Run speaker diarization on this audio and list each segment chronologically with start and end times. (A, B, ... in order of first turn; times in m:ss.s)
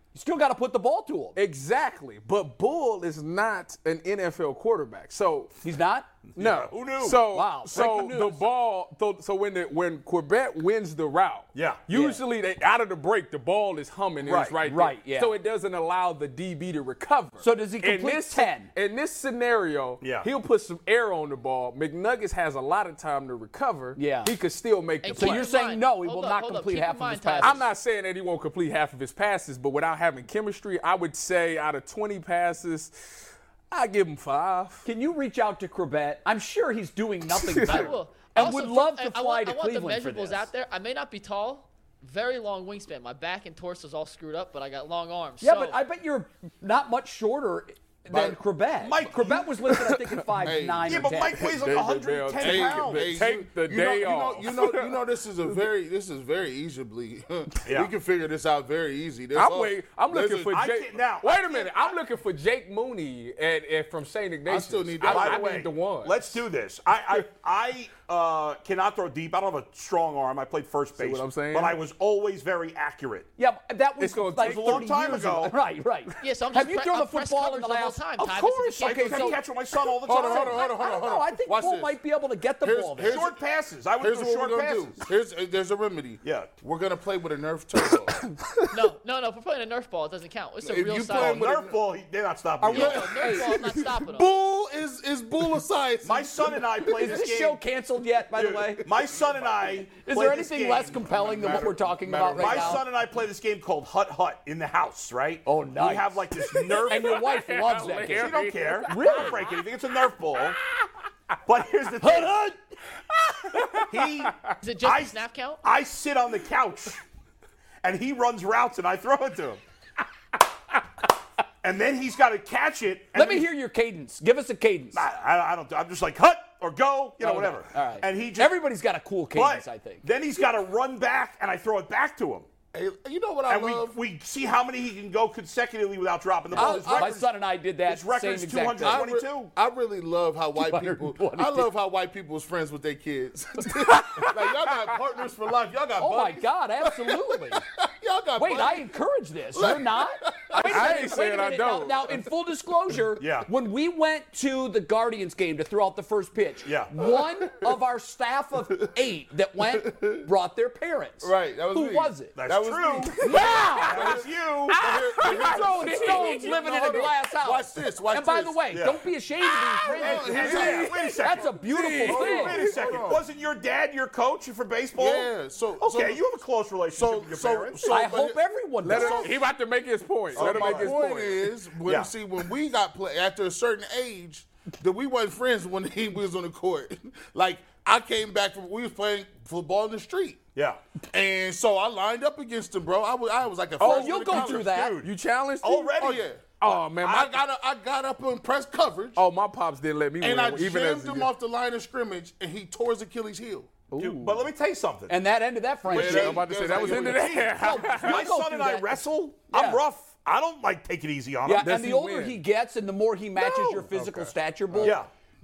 0:00.1-0:01.4 A
0:01.3-0:05.6 B
0:05.6-0:06.1 A
0:06.4-0:07.2 C
0:06.4-0:25.5 B
0:07.3-0:08.4 A
0:11.5-0:11.8 C
0:11.9-0:12.2 A
0:14.2-0:14.6 C
0:14.6-0:15.4 A
0:17.4-0:18.7 A
0:20.0-0:20.3 C
0:24.0-0:24.4 A
0:25.0-0:27.6 D
0:25.1-0:27.6 A
0:27.4-0:34.9 B
0:34.8-0:40.5 A
0:37.6-0:45.7 D
0:45.4-0:51.4 A
0:48.1-0:48.4 E
0:48.8-0:49.5 C
0:50.4-0:50.9 E
0:50.9-0:53.2 C
0:51.3-0:55.0 B
0:52.4-1:00.6 E
0:57.7-0:57.9 C
0:59.3-1:06.2 B
1:00.5-1:01.9 C
1:04.4-1:05.6 E
1:05.0-1:13.3 C
1:11.0-1:11.8 B
1:13.4-1:19.4 A
1:14.0-1:14.9 B
1:14.4-1:15.5 C
1:16.2-1:19.3 D
1:18.8-1:20.7 C
1:20.0-1:21.9 E
1:20.2-1:23.3 A
1:22.6-1:23.4 E
1:23.0-1:24.9 C
1:24.0-1:28.2 E
1:26.2-1:26.5 C
1:28.7-1:31.5 D
1:30.6-1:31.8 E
1:31.1-1:33.2 C
1:32.6-1:33.6 A
1:32.7-1:34.3 D
1:32.8-1:37.2 E
1:36.0-1:37.6 C
1:36.9-1:38.9 A
1:38.4-1:41.7 C
1:39.2-1:39.6 E
1:40.0-1:42.8 A
1:40.9-1:42.9 E
1:42.3-1:47.2 C
1:45.4-1:48.3 A
1:46.9-1:49.3 B
1:48.1-1:50.6 C
1:48.9-1:49.5 A
1:51.4-1:52.4 C
1:52.0-1:52.6 A
1:53.9-1:57.0 C
1:54.6-1:55.6 D
1:57.8-1:59.6 C
2:01.6-2:03.5 C
2:03.1-2:05.0 A
2:04.9-2:08.5 C
2:07.2-2:10.0 A
2:09.3-2:12.5 C
2:12.7-2:13.9 E
2:13.5-2:17.3 C
2:16.5-2:17.1 E
2:16.5-2:19.0 A
2:17.8-2:19.5 C
2:18.8-2:28.9 E
2:20.5-2:21.7 A
2:26.0-2:27.6 A
2:28.4-2:42.3 A
2:29.5-2:31.2 E
2:30.5-2:32.2 B
2:33.2-2:33.5 C
2:36.6-2:36.9 C
2:39.7-2:40.2 E
2:41.2-2:48.6 E
2:42.4-2:43.2 C
2:43.2-2:44.2 A
2:43.8-2:44.8 C
2:44.8-2:47.1 B
2:44.9-2:52.6 A
2:48.7-2:49.0 C
2:49.8-2:51.3 E
2:50.0-2:58.0 C
2:51.5-2:53.0 B
2:52.0-2:53.2 E
2:55.0-2:56.2 E
2:56.9-2:59.3 E
2:57.8-2:59.3 A
2:58.8-3:01.5 B
3:00.3-3:00.9 C
3:00.3-3:10.4 E
3:01.8-3:02.1 C
3:10.5-3:10.8 C
3:11.1-3:14.6 E
3:13.8-3:14.1 B
3:13.8-3:15.0 A
3:13.8-3:15.1 C
3:15.0-3:15.9 B
3:15.6-3:16.2 C
3:16.0-3:19.2 E
3:16.6-3:17.4 B
3:19.2-3:21.3 B
3:20.2-3:23.7 E
3:23.9-3:24.4 B
3:24.0-3:25.2 C
3:25.1-3:26.7 A
3:25.9-3:27.6 E
3:25.9-3:28.2 B
3:26.2-3:31.7 C
3:27.2-3:29.8 A
3:31.4-3:35.0 A
3:31.6-3:32.4 B
3:33.6-3:34.9 B
3:34.8-3:35.1 C